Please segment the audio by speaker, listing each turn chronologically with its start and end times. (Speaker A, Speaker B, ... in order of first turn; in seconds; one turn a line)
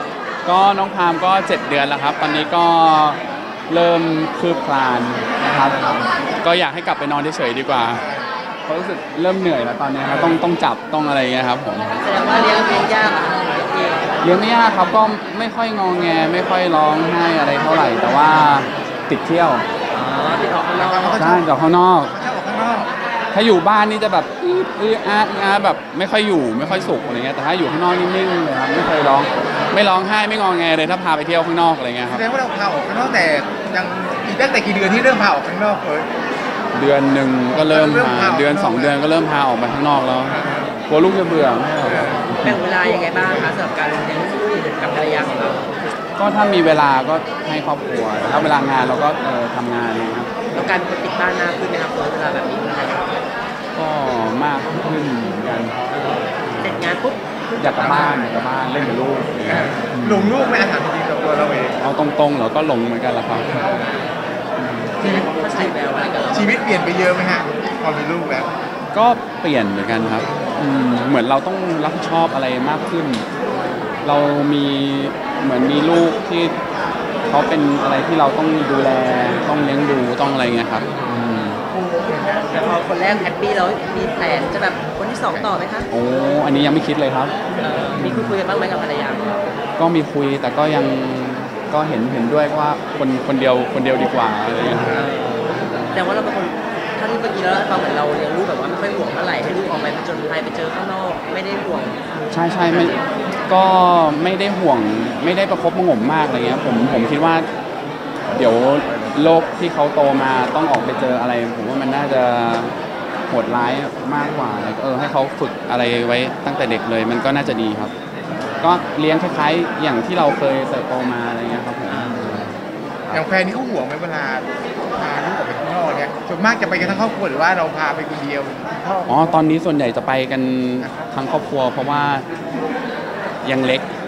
Speaker A: 0.5-3.2
Speaker A: 3.7-8.1
Speaker B: 7.7-8.3
Speaker A: 8.7-12.0
Speaker C: 10.1-10.4
Speaker C: 11.9-14.1
Speaker A: 14.2-19.6
Speaker C: 19.9-21.2
Speaker B: 20.8-21.5
Speaker A: 21.2-22.1
Speaker B: 22.1-22.9
Speaker A: 23.3-32.2
Speaker C: 26.7-26.9
Speaker B: 32.1-36.1
Speaker A: 36.7-42.6
Speaker B: 37.5-39.0
Speaker B: 40.3-40.7
Speaker B: 41.8-42.2
Speaker C: 42.3-45.7
Speaker B: 42.9-43.5
Speaker A: 46.2-50.3
Speaker C: 50.5-53.1
Speaker A: 53.7-55.8
Speaker C: 55.9-58.4
Speaker A: 57.6-60.4
Speaker B: 58.8-61.8
Speaker A: 61.8-63.7
Speaker C: 63.5-63.8
Speaker A: 64.6-64.9
Speaker C: 65.0-66.7
Speaker B: 65.0-65.7
Speaker B: 66.3-68.5
Speaker A: 68.9-73.3
Speaker A: 74.0-76.5
Speaker A: 77.3-81.6
Speaker C: 82.5-85.9
Speaker A: 85.3-87.3
Speaker C: 87.6-89.4
Speaker A: 88.0-88.4
Speaker A: 89.8-94.9
Speaker C: 94.8-102.0
Speaker A: 102.3-103.0
Speaker C: 102.7-103.0
Speaker A: 103.5-107.5
Speaker A: 108.3-112.8
Speaker A: 113.3-117.9
Speaker B: 114.2-114.5
Speaker A: 118.6-122.5
Speaker C: 121.9-122.2
Speaker B: 123.1-129.6
Speaker A: 129.1-132.3
Speaker B: 130.8-131.1
Speaker A: 133.4-133.9